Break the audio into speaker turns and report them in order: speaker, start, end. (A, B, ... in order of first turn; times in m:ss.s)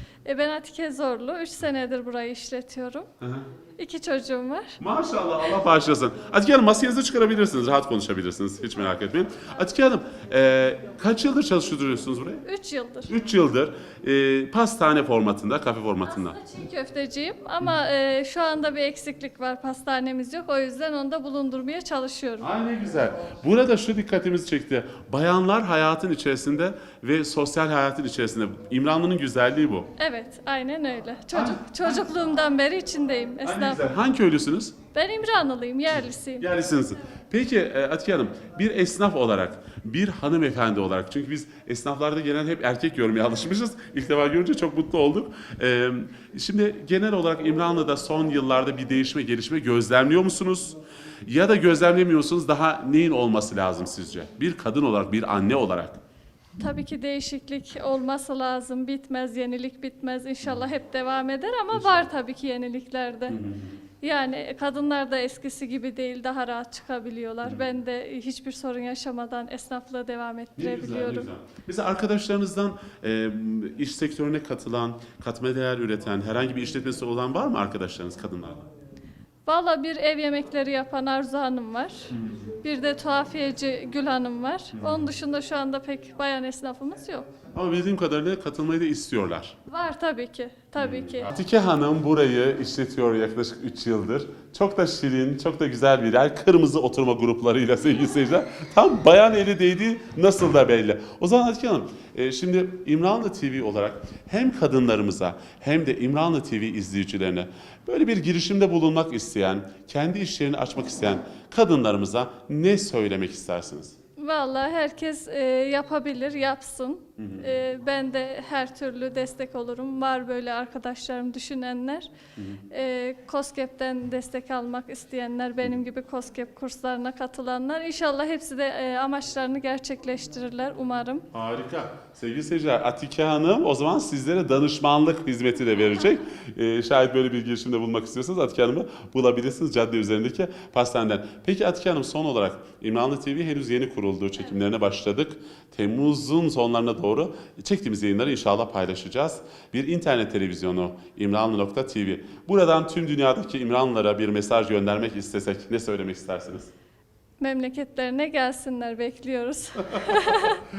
0:00.2-0:03.1 A
0:03.2-0:03.5 B
0:03.8-0:04.8 A
0:04.8-0:12.4 B
0:12.4-0:13.1 A
0:13.1-0:16.4 B
0:16.1-0:22.5 A
0:22.4-0:29.9 B
0:30.0-0:33.9 A
0:31.3-0:32.0 B
0:33.4-0:34.8 B
0:34.9-0:36.5 A
0:36.4-0:56.0 B
0:56.6-1:03.4 A
1:03.3-1:03.7 B
1:04.0-1:11.3 A
1:10.6-1:18.7 B
1:19.5-1:27.3 A
1:22.1-1:22.4 B
1:24.8-1:25.1 B
1:27.5-1:29.6 B
1:29.7-1:31.3 A
1:30.8-1:54.0 B
1:54.2-2:02.1 A
1:57.2-1:57.5 B
2:02.4-2:02.6 B
2:02.7-2:11.3 A
2:11.3-2:36.7 B
2:37.4-2:40.6 A